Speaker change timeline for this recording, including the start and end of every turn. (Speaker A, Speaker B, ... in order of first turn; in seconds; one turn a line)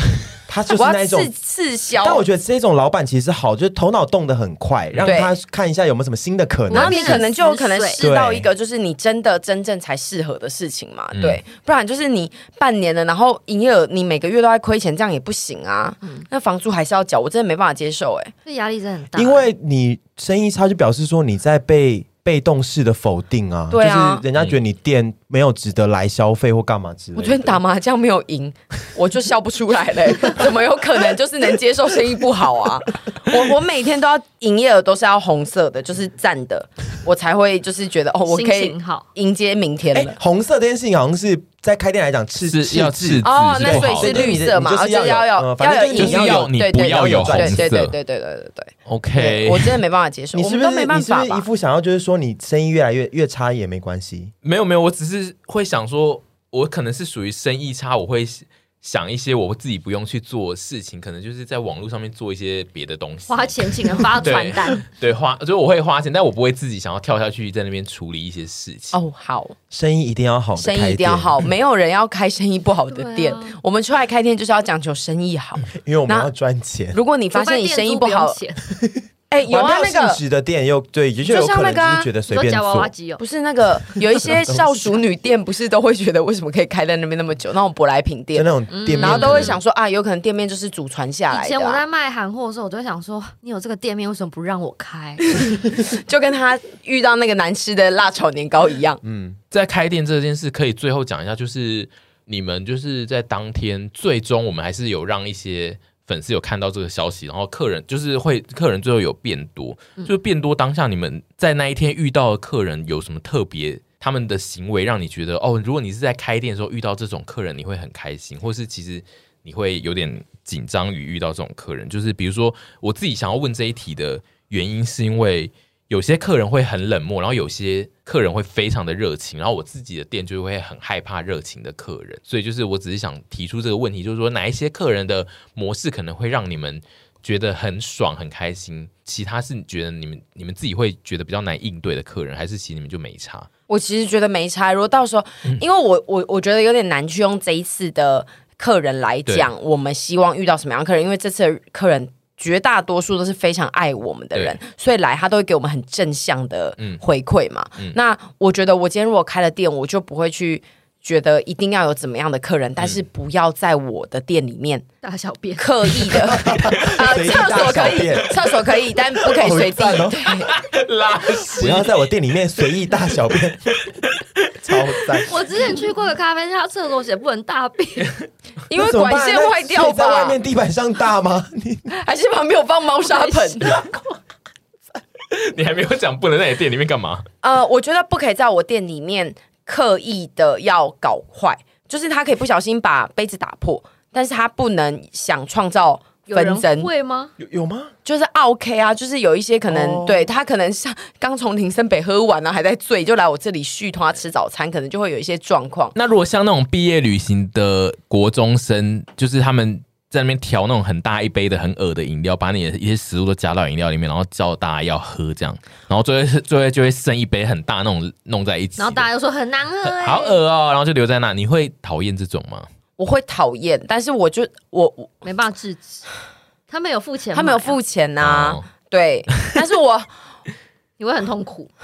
Speaker A: 0.5-1.3
Speaker B: 0.7-2.2
Speaker A: 2.0-7.2
Speaker B: 5.0-5.3
Speaker C: 6.7-8.0
Speaker B: 6.7-18.3
Speaker A: 8.0-8.5
Speaker D: 11.1-11.4
Speaker C: 18.4-19.5
Speaker A: 19.1-27.6
Speaker B: 23.7-24.2
Speaker B: 27.1-40.1
Speaker C: 38.3-39.0
Speaker A: 39.9-47.7
Speaker D: 42.4-44.3
Speaker B: 43.2-51.5
Speaker D: 46.0-47.9
Speaker D: 48.9-49.8
Speaker A: 50.3-54.3
Speaker D: 54.4-69.0
Speaker C: 63.3-64.8
Speaker B: 68.9-69.5
Speaker A: 69.7-71.3
Speaker B: 70.5-76.3
Speaker C: 72.9-73.6
Speaker A: 75.7-77.0
Speaker B: 76.9-78.4
Speaker C: 77.3-78.6
Speaker A: 78.8-82.9
Speaker B: 79.3-80.2
Speaker B: 81.2-82.1
Speaker C: 82.3-83.2
Speaker B: 83.2-91.8
Speaker A: 84.2-84.8
Speaker A: 88.3-89.6
Speaker C: 88.7-89.5
Speaker C: 91.3-95.5
Speaker B: 95.3-99.0
Speaker A: 99.0-99.4
Speaker D: 99.5-143.5
Speaker B: 143.7-164.9
Speaker D: 154.3-154.6
Speaker C: 165.0-166.3
Speaker B: 165.6-170.5
Speaker A: 166.3-168.4
Speaker C: 167.2-168.1
Speaker A: 169.2-170.2
Speaker D: 170.5-172.0
Speaker A: 171.5-173.8
Speaker A: 174.6-175.3
Speaker C: 175.2-178.1
Speaker B: 178.7-180.4
Speaker A: 178.8-181.9
Speaker B: 181.9-183.7
Speaker C: 183.1-183.9
Speaker D: 185.3-187.2
Speaker B: 187.4-196.9
Speaker C: 196.3-197.3
Speaker A: 197.4-197.9
Speaker B: 198.0-205.9
Speaker A: 199.7-200.3
Speaker D: 205.9-219.1
Speaker C: 218.8-220.4
Speaker D: 219.8-222.7
Speaker B: 223.0-225.2
Speaker C: 225.2-226.0
Speaker C: 226.7-227.8
Speaker B: 227.3-230.1
Speaker D: 228.2-228.6
Speaker C: 231.0-231.7